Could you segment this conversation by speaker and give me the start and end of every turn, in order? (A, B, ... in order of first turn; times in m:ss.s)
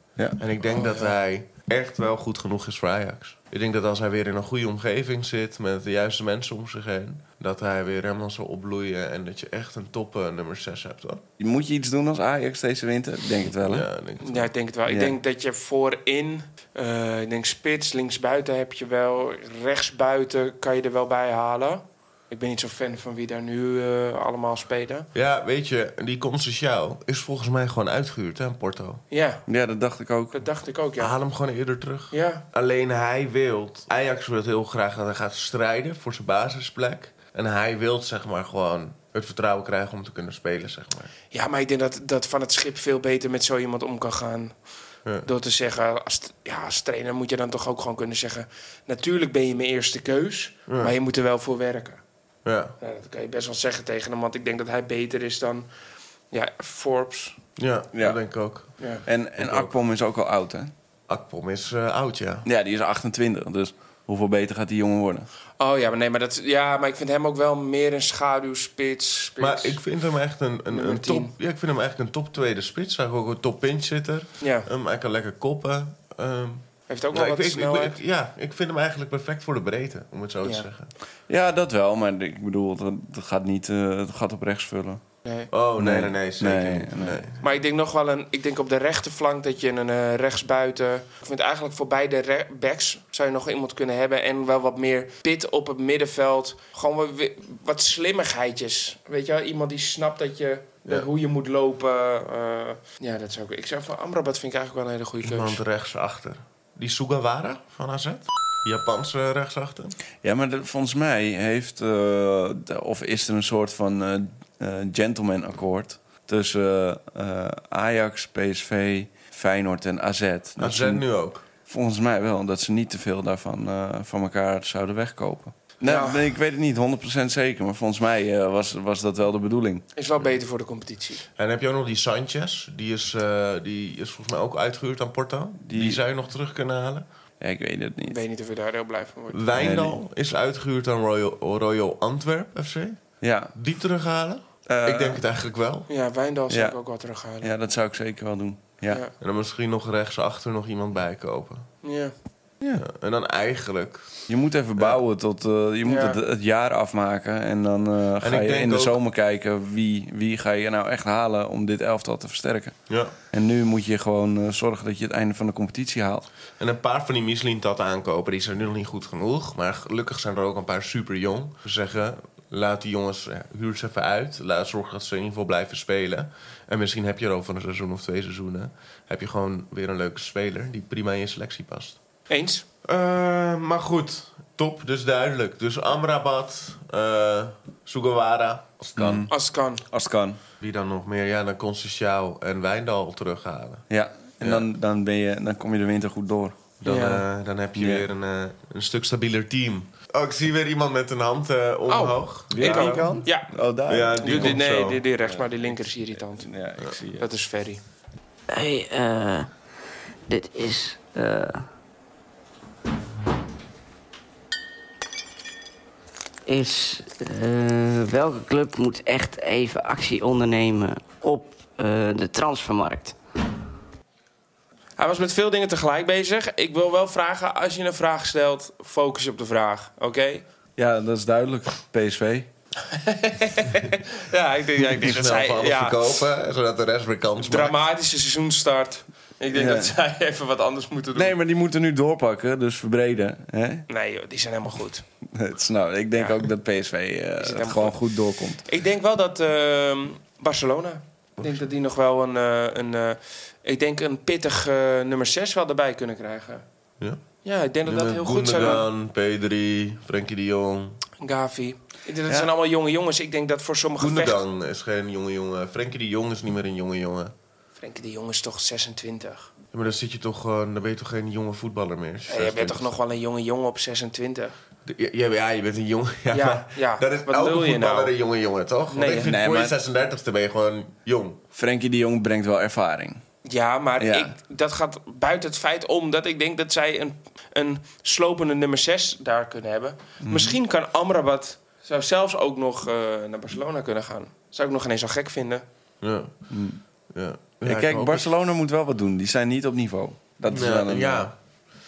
0:00.4-0:11.2 A
0:00.7-0:01.2 B
0:11.4-0:13.9 C
0:13.7-0:14.5 A
0:14.2-0:25.1 B
0:14.9-0:15.2 C
0:25.1-0:29.0 A
0:29.1-0:29.4 B
0:29.5-0:30.4 C
0:30.3-0:31.1 B
0:31.0-0:41.1 A
0:32.1-0:32.4 B
0:41.3-0:44.7 B
0:45.2-0:52.0 B
0:50.7-0:50.9 A
0:52.4-0:52.7 A
0:52.8-0:55.7 B
0:56.3-0:57.4 B
0:57.6-0:58.7 A
0:57.9-0:58.2 C
0:59.1-1:00.7 C
0:59.4-0:59.7 A
1:01.1-1:02.4 A
1:02.4-1:05.3 C
1:05.6-1:09.8 B
1:09.4-1:20.9 A
1:10.7-1:11.3 B
1:14.4-1:14.7 B
1:16.9-1:18.0 B
1:21.3-1:25.0 C
1:25.2-1:25.5 B
1:25.5-1:27.4 A
1:25.8-1:27.3 C
1:27.4-1:45.6 B
1:45.2-1:50.0 A
1:50.2-2:01.0 C
2:00.6-2:01.4 A
2:01.6-2:09.8 C
2:05.8-2:06.3 B
2:10.0-2:11.3 B
2:11.4-2:17.0 A
2:15.6-2:16.0 C
2:17.4-2:18.2 C
2:18.1-2:19.4 B
2:19.3-2:23.0 A
2:19.6-2:20.0 C
2:23.2-2:23.5 C
2:23.6-2:25.9 A
2:24.7-2:25.2 C
2:25.9-2:27.5 B
2:26.5-2:26.8 C
2:27.4-2:29.0 C
2:29.2-2:31.7 A
2:31.8-2:32.1 B
2:32.7-2:34.2 A
2:34.3-2:42.8 C
2:35.8-2:36.2 B
2:38.2-2:39.0 A
2:42.9-2:43.1 A
2:43.3-2:46.3 C
2:46.6-3:02.0 A
3:02.3-3:02.6 B
3:02.8-3:09.3 A
3:09.0-3:09.3 C
3:09.3-3:09.8 B
3:09.9-3:10.4 C
3:10.6-3:13.9 A
3:13.9-3:16.6 C
3:14.4-3:14.7 A
3:16.8-3:23.2 A
3:16.9-3:17.2 B
3:17.8-3:18.1 C
3:21.9-3:23.6 B
3:22.5-3:24.6 C
3:23.9-3:25.0 A
3:24.2-3:27.8 B
3:25.2-3:27.3 C
3:28.5-3:29.5 D
3:30.3-3:31.6 D
3:36.5-3:43.2 D
3:45.0-3:50.4 B
3:50.8-3:52.5 C
3:52.8-3:56.1 B
3:54.9-3:57.8 A
3:57.4-4:01.3 B
3:59.5-3:59.9 C
4:01.1-4:03.9 C
4:03.9-4:05.1 B
4:05.3-4:08.6 C
4:06.2-4:06.4 B
4:07.4-4:16.6 B
4:17.4-4:18.8 B
4:17.8-4:21.0 A
4:18.6-4:18.8 C
4:21.2-4:24.4 B
4:24.0-4:27.3 A
4:27.8-4:29.5 B
4:29.7-4:32.9 A
4:32.3-4:34.6 B
4:34.8-4:41.4 A
4:36.3-4:38.1 B
4:38.9-4:39.3 B
4:39.2-4:39.8 C
4:41.6-4:43.2 C
4:43.4-4:55.6 B
4:44.0-4:44.3 C
4:50.2-4:50.6 C
4:56.0-4:56.3 A
4:56.5-4:56.8 C
4:57.1-4:58.3 A
4:57.6-5:01.3 C
5:00.5-5:01.4 A